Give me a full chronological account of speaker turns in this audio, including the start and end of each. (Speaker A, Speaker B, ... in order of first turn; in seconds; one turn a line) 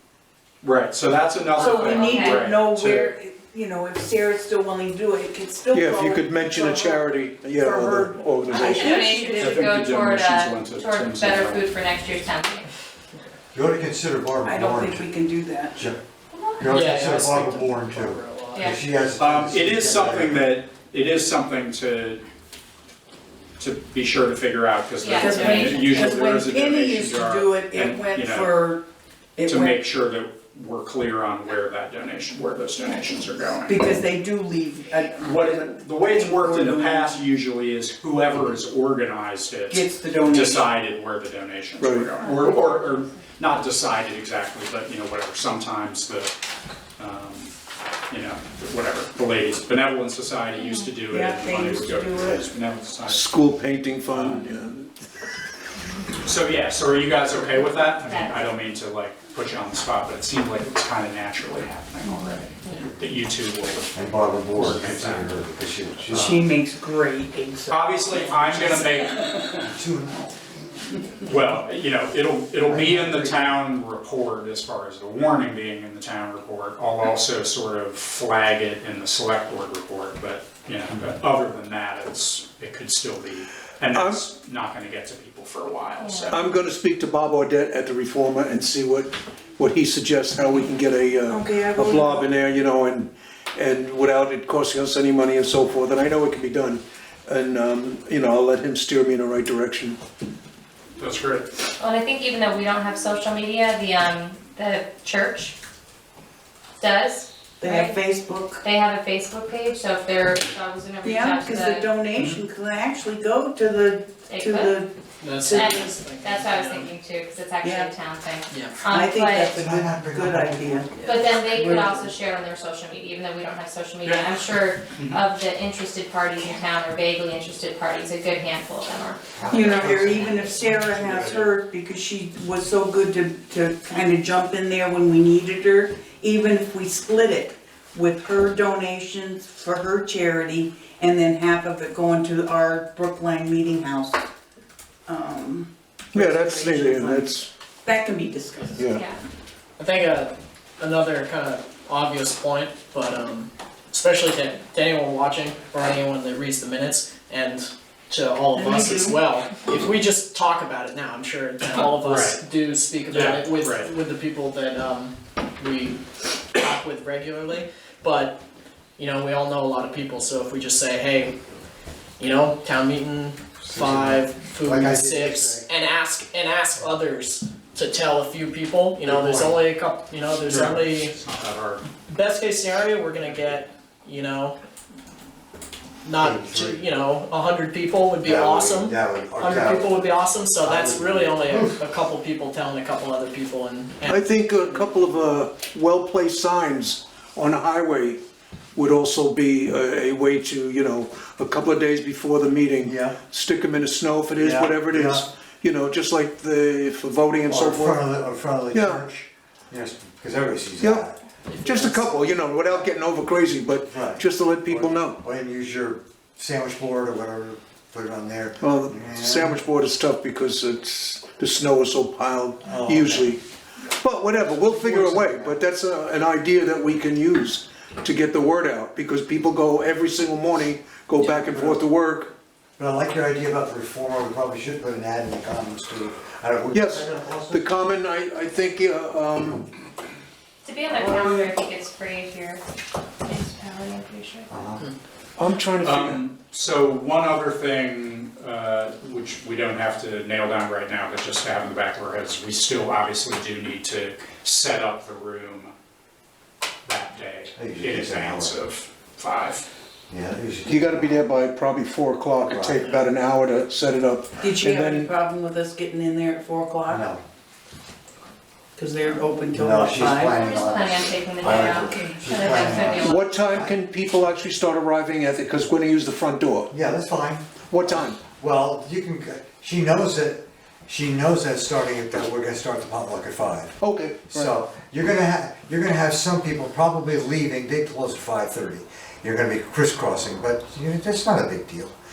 Speaker A: 0.6-3.1
Speaker B: 1.5-9.7
Speaker C: 1.6-2.4
Speaker D: 5.7-9.0
Speaker C: 8.5-12.7
Speaker A: 9.3-11.7
Speaker E: 13.5-15.0
Speaker B: 14.4-15.9
Speaker E: 15.7-16.0
Speaker C: 16.3-16.6
Speaker E: 16.6-20.5
Speaker F: 16.6-18.7
Speaker A: 19.2-22.2
Speaker A: 23.6-28.6
Speaker C: 25.0-26.0
Speaker B: 25.1-29.8
Speaker A: 29.4-33.8
Speaker B: 33.6-37.2
Speaker A: 35.2-46.3
Speaker B: 39.7-40.7
Speaker D: 41.8-42.1
Speaker C: 42.1-43.2
Speaker A: 47.0-47.5
Speaker A: 48.1-53.4
Speaker C: 50.5-50.9
Speaker B: 51.1-52.5
Speaker D: 53.1-54.9
Speaker A: 54.1-54.5
Speaker A: 56.2-65.4
Speaker C: 57.6-58.5
Speaker E: 63.9-66.4
Speaker B: 66.1-69.7
Speaker A: 66.1-66.4
Speaker A: 67.7-69.7
Speaker E: 69.7-70.3
Speaker A: 71.2-86.4
Speaker E: 72.6-73.6
Speaker D: 83.9-84.2
Speaker C: 86.0-86.4
Speaker D: 86.3-100.0
Speaker B: 91.3-92.2
Speaker A: 101.0-101.5
Speaker C: 101.8-105.5
Speaker C: 106.8-108.0
Speaker B: 107.6-108.6
Speaker C: 108.6-111.9
Speaker B: 111.0-115.9
Speaker C: 114.3-114.8
Speaker F: 115.2-116.9
Speaker C: 115.5-119.5
Speaker B: 117.6-117.9
Speaker F: 118.5-118.8
Speaker B: 118.8-122.1
Speaker E: 119.5-120.9
Speaker C: 121.0-129.3
Speaker A: 124.0-124.3
Speaker A: 124.9-125.2
Speaker E: 129.3-131.5
Speaker B: 129.5-144.2
Speaker B: 145.1-148.9
Speaker D: 146.1-147.5
Speaker D: 148.8-149.0
Speaker C: 148.9-149.2
Speaker F: 149.8-166.0
Speaker B: 158.5-159.2
Speaker A: 162.0-162.4
Speaker A: 163.1-163.9
Speaker F: 166.5-168.4
Speaker F: 169.0-171.3
Speaker F: 172.2-181.1
Speaker E: 173.6-175.7
Speaker E: 179.0-179.6
Speaker A: 180.4-181.9
Speaker F: 182.0-184.6
Speaker F: 186.0-195.2
Speaker E: 186.2-186.8
Speaker E: 188.2-189.9
Speaker E: 190.6-191.8
Speaker D: 194.0-198.2
Speaker D: 198.8-208.1
Speaker E: 202.8-203.2
Speaker E: 204.4-205.2
Speaker E: 207.5-211.2
Speaker D: 208.7-209.0
Speaker F: 211.4-212.0
Speaker D: 211.6-215.2
Speaker E: 212.6-212.9
Speaker E: 213.8-219.6
Speaker D: 218.6-223.4
Speaker E: 222.6-223.4
Speaker D: 224.0-232.3
Speaker E: 224.6-225.6
Speaker E: 231.2-231.8
Speaker E: 232.8-237.7
Speaker D: 236.7-239.7
Speaker C: 240.6-242.6
Speaker E: 241.1-241.4
Speaker C: 243.2-244.5
Speaker E: 244.5-244.8
Speaker D: 245.4-246.2
Speaker A: 245.8-255.7
Speaker A: 256.9-259.7
Speaker E: 257.6-258.6
Speaker E: 260.1-261.2
Speaker D: 260.7-265.1
Speaker E: 262.4-262.9
Speaker B: 264.4-267.1
Speaker E: 266.9-267.2
Speaker B: 268.8-270.4
Speaker E: 269.5-273.7
Speaker C: 270.3-273.2
Speaker B: 271.7-272.1
Speaker D: 273.0-276.7
Speaker E: 276.7-283.8
Speaker D: 277.7-278.2
Speaker D: 283.8-284.5
Speaker E: 284.3-291.9